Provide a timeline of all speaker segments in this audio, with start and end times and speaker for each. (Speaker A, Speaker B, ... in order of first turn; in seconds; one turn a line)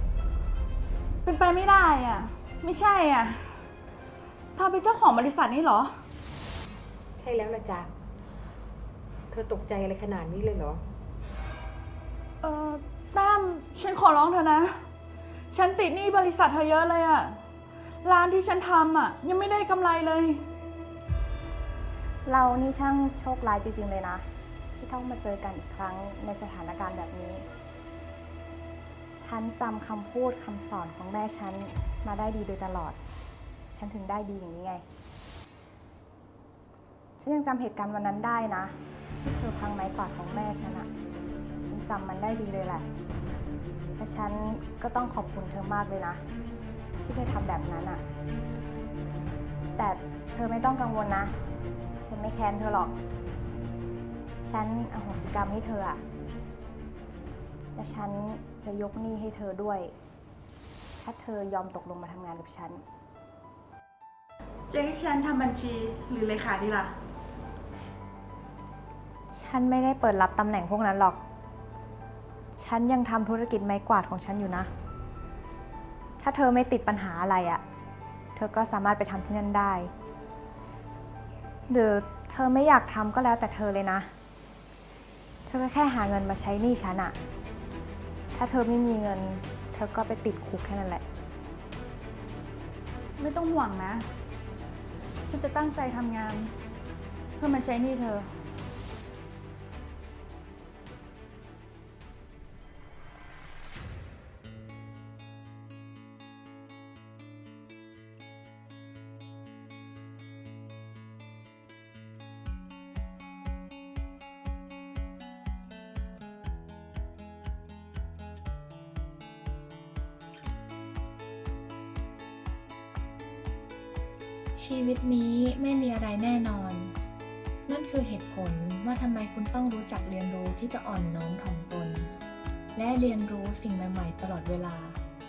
Speaker A: 1.2-3.5
Speaker A: 4.5-5.9
Speaker B: 7.2-7.9
Speaker B: 9.3-10.8
Speaker A: 12.4-14.7
Speaker A: 15.5-17.4
Speaker A: 18.0-20.4
Speaker C: 22.3-24.2
Speaker C: 24.8-27.4
Speaker C: 29.1-33.0
Speaker C: 33.7-34.8
Speaker C: 37.2-40.9
Speaker C: 41.6-42.8
Speaker C: 44.0-46.2
Speaker C: 47.0-48.0
Speaker C: 49.7-51.3
Speaker C: 52.0-52.9
Speaker C: 54.4-56.0
Speaker C: 57.8-59.9
Speaker C: 61.0-62.8
Speaker A: 64.7-66.9
Speaker C: 69.3-71.2
Speaker C: 72.5-74.7
Speaker C: 76.2-77.6
Speaker C: 78.3-79.9
Speaker C: 81.7-84.1
Speaker C: 85.5-87.2
Speaker C: 88.3-91.0
Speaker A: 93.2-94.0
Speaker A: 95.3-96.5
Speaker A: 97.4-98.3
Speaker D: 124.5-127.0
Speaker D: 127.7-132.1
Speaker D: 132.7-135.0